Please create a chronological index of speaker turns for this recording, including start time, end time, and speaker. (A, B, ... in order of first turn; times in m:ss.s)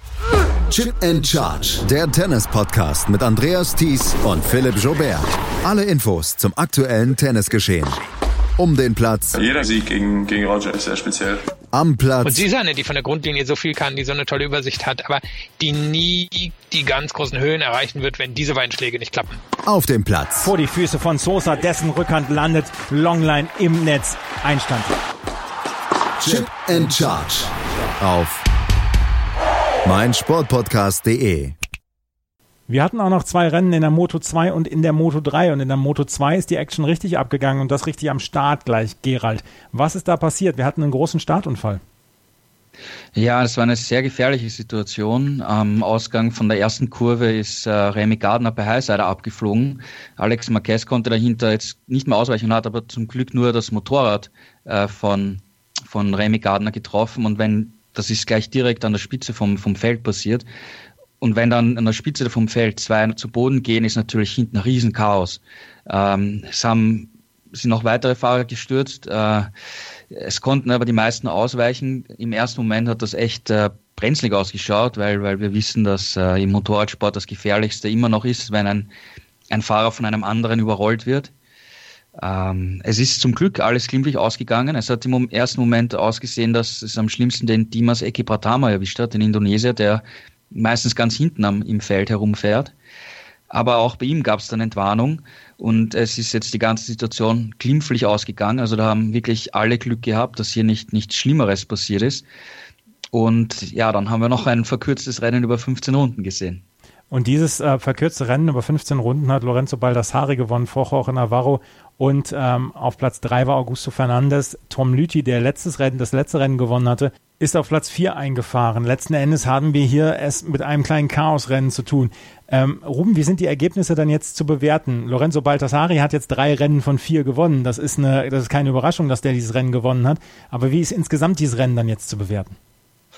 0:00.7-0:08.0 A
0:08.6-0:09.4 A
0:09.3-0:11.4 B
0:11.7-0:12.4 A
0:12.2-0:19.4 C
0:19.6-0:20.5 A
0:20.4-0:24.9 D
0:26.2-0:28.4 A
0:29.8-0:31.5 A
0:32.7-0:41.8 D
0:43.1-1:00.4 E
1:01.2-1:09.5 E
1:10.1-1:18.9 E
1:19.5-1:21.3 E
1:22.2-1:32.7 E
1:33.5-1:42.2 E
1:43.1-1:46.6 E
1:47.1-2:12.6 D